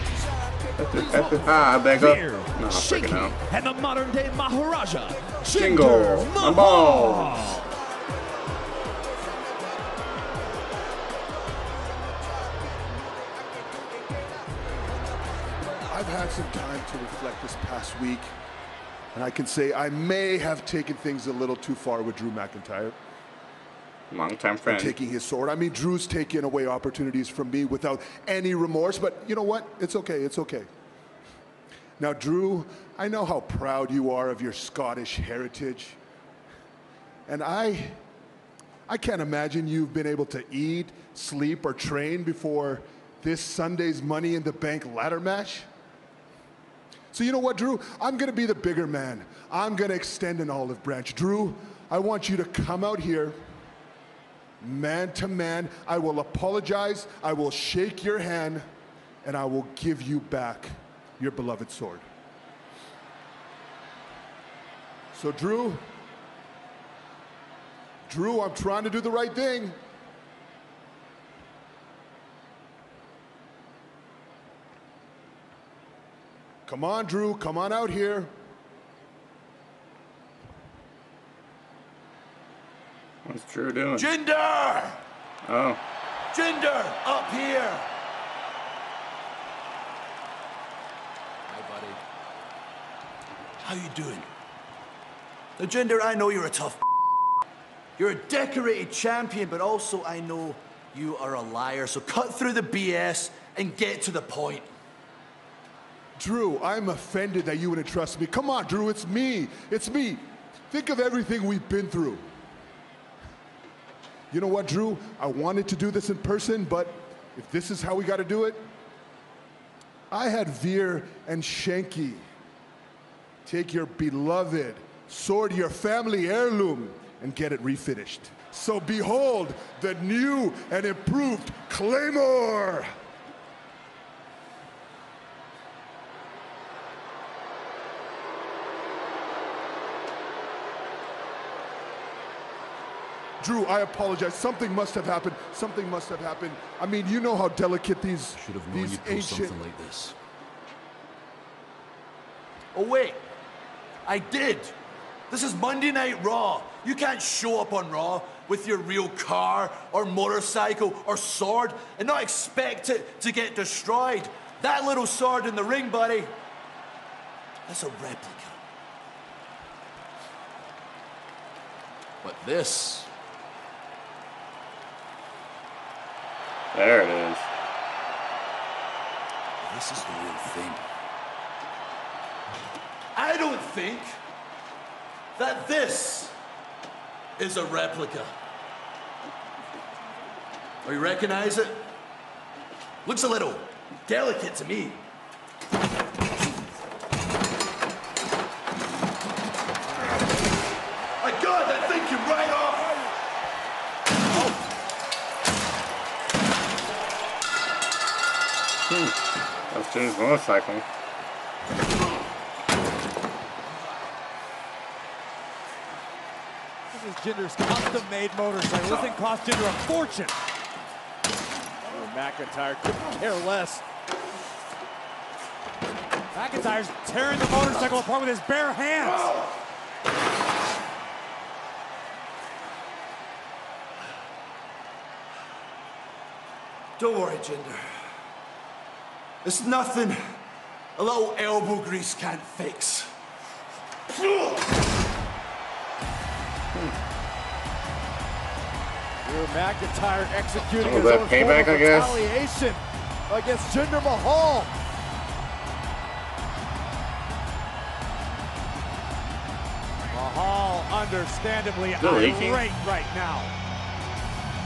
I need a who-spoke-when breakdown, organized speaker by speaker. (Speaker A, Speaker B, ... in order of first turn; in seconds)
Speaker A: 0.8-3.4, 5.5-7.5, 24.1-24.9, 83.2-84.1, 85.4-85.8, 176.7-177.5, 208.9-210.8, 250.8-252.2, 262.0-262.6
Speaker B: 1.3-7.6, 216.9-220.4, 221.9-223.8, 226.3-229.3, 249.2-254.7, 260.1-263.5
Speaker C: 15.9-18.3, 19.1-22.9, 24.6-30.7, 32.0-36.0, 37.3-38.0, 38.9-45.7, 47.1-53.4, 54.6-58.6, 59.2-62.0, 65.1-65.8, 68.1-69.8, 76.7-78.3, 106.2-112.3, 114.3-118.6, 120.1-122.2, 123.4-132.9, 143.4-149.6
Speaker D: 83.9-85.0, 86.3-87.9, 91.5-92.0, 93.6-94.3, 95.6-96.8, 98.0-104.7, 148.3-150.1, 152.7-153.2, 154.0-154.7, 155.3-166.3, 167.7-168.6, 172.2-173.1, 179.6-180.8, 183.1-184.2, 185.3-186.4, 187.4-188.3, 190.8-191.9, 193.0-195.1, 201.2-203.0, 229.0-229.4, 237.0-238.0, 239.4-240.4, 240.9-243.1, 244.1-244.7